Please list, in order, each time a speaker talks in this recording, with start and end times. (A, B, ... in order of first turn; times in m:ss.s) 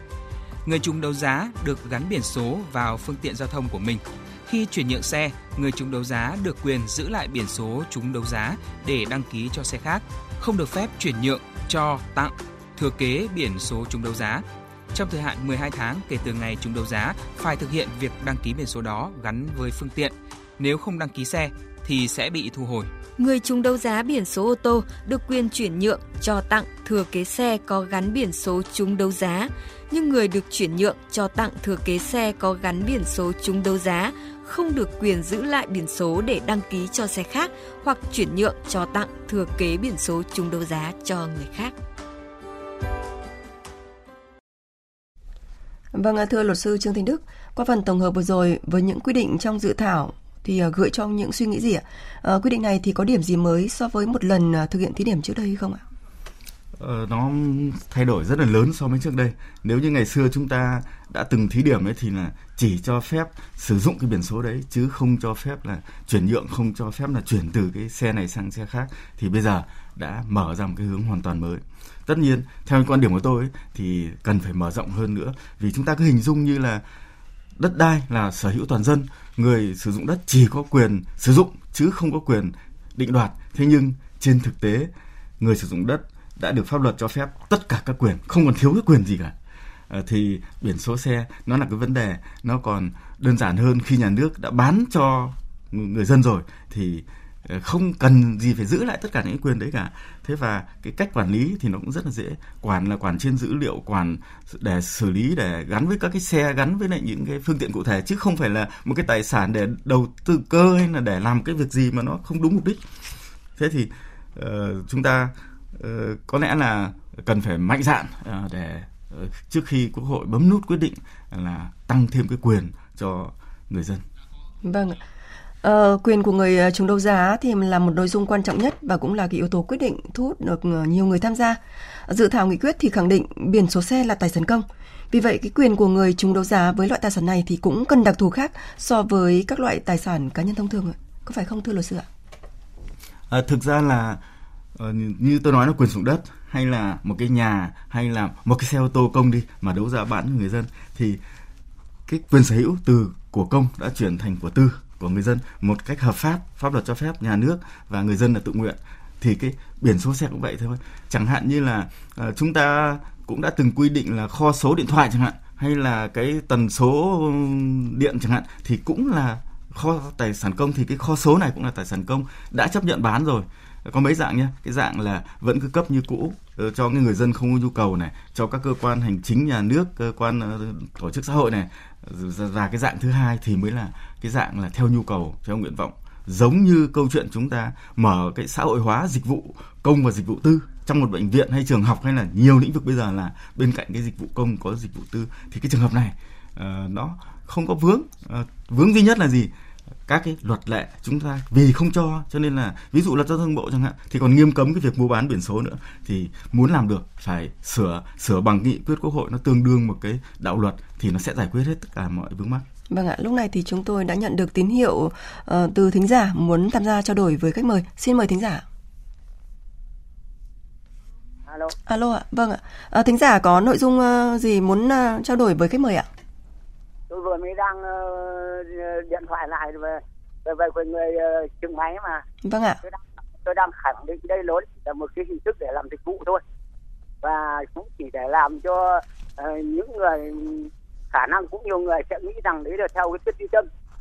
0:00.6-0:22.9 A
0:23.2-0:41.7 B
0:45.9-0:55.8 C
0:56.8-1:16.8 D
1:17.6-1:29.3 D
1:29.9-1:52.8 D
1:53.6-2:04.0 D
2:04.6-2:05.0 C
2:05.6-2:22.0 C
2:23.3-2:24.2 D
2:24.8-2:31.2 D
2:32.1-3:19.5 D
3:20.1-3:32.6 D
3:32.9-3:38.6 C
3:41.5-3:41.7 E
3:41.9-3:46.1 C
3:47.1-3:52.2 E
3:52.4-3:52.8 C
3:52.8-3:56.4 E
3:57.2-4:03.7 E